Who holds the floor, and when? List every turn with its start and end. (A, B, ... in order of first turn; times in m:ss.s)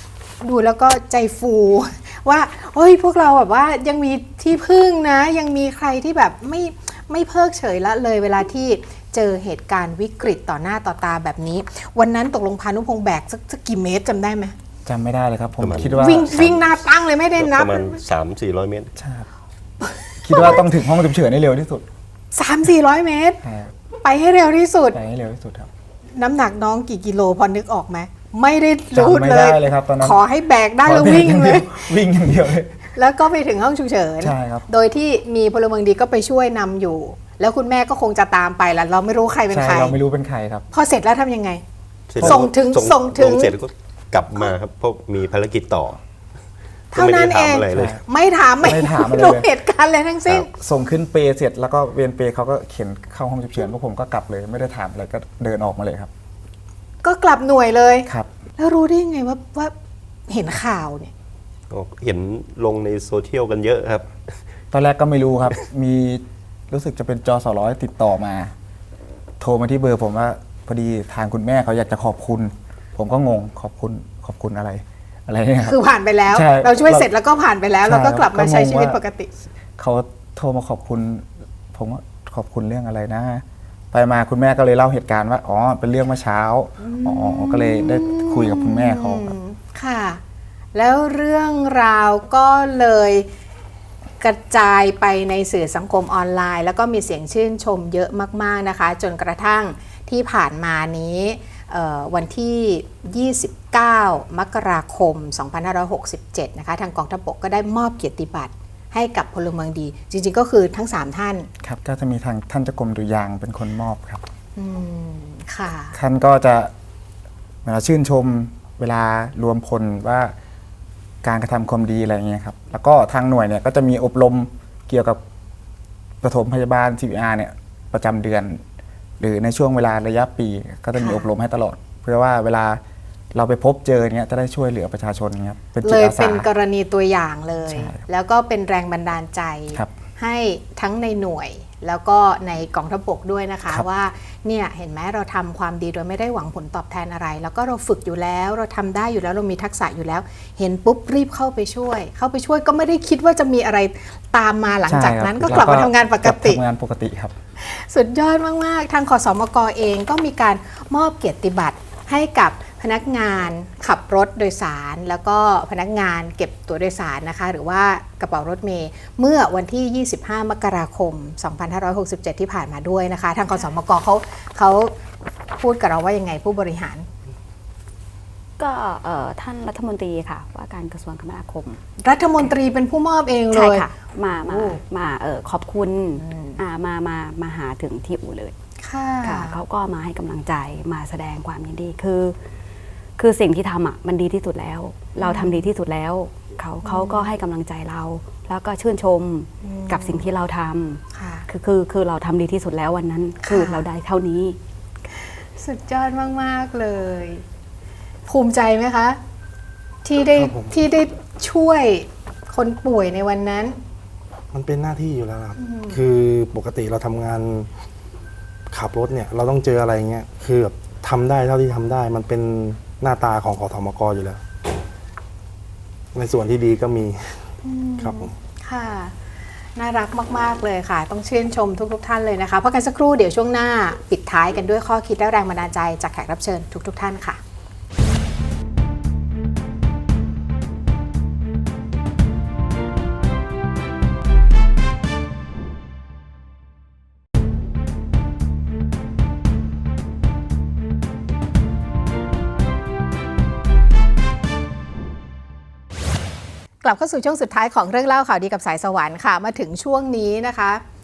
0:00.4-0:14.5 A
0:14.8-0:16.4 B
0:15.6-0:16.6 C
0:15.8-0:18.0 A
0:17.3-0:18.9 C
0:19.0-0:19.3 B
0:19.8-0:20.6 A
0:20.2-0:21.8 B
0:22.3-0:23.4 A
0:23.4-0:23.7 B
0:24.0-0:25.0 A
0:24.9-0:25.7 B
0:26.2-0:32.0 A
0:28.9-0:30.2 B
0:30.8-0:32.9 B
0:32.9-0:40.0 A
0:34.2-0:34.7 B
0:39.5-0:40.6 B
0:40.7-0:41.6 A
0:42.1-0:46.0 C
0:42.2-0:42.4 B
0:42.2-0:43.5 A
0:46.9-0:48.0 C
0:46.9-0:50.5 A
0:47.7-0:48.0 B
0:48.6-0:49.5 B
0:50.3-0:56.1 B
0:57.0-0:59.7 A
1:00.3-1:01.1 A
1:01.7-1:04.1 C
1:04.7-1:08.5 B
1:09.4-1:17.1 B
1:15.6-1:19.3 A
1:17.8-1:19.0 B
1:19.8-1:29.3 B
1:26.8-1:30.2 A
1:30.7-1:33.3 A
1:34.2-1:51.5 A
1:51.6-1:54.2 B
1:54.6-1:56.0 A
1:55.9-1:56.7 B
1:57.6-2:00.3 B
2:01.2-2:05.2 B
2:06.2-2:08.6 B
2:09.2-2:12.8 B
2:11.0-2:11.3 A
2:13.3-2:16.5 B
2:15.8-2:36.6 A
2:17.7-2:18.0 B
2:34.9-2:37.3 B
2:37.6-2:54.9 A
2:55.6-2:57.1 A
2:58.6-3:01.8 D
3:02.0-3:03.9 A
3:03.5-3:08.5 D
3:04.4-3:04.8 A
3:06.2-3:06.6 A
3:08.8-3:09.6 A
3:09.2-3:12.4 D
3:13.2-3:24.6 D
3:15.2-3:15.6 A
3:16.8-3:17.3 A
3:19.6-3:20.2 A
3:21.1-3:21.5 A
3:23.4-3:23.8 A
3:25.1-3:27.4 A
3:28.3-3:29.2 A
3:30.0-3:33.8 A
3:30.2-3:30.8 E
3:34.5-3:37.7 E
3:35.6-3:36.0 A
3:38.7-3:44.4 E
3:46.1-3:47.4 E
3:47.6-3:49.2 A
3:48.0-3:48.3 E
3:49.7-3:57.4 A
4:16.8-4:20.8 A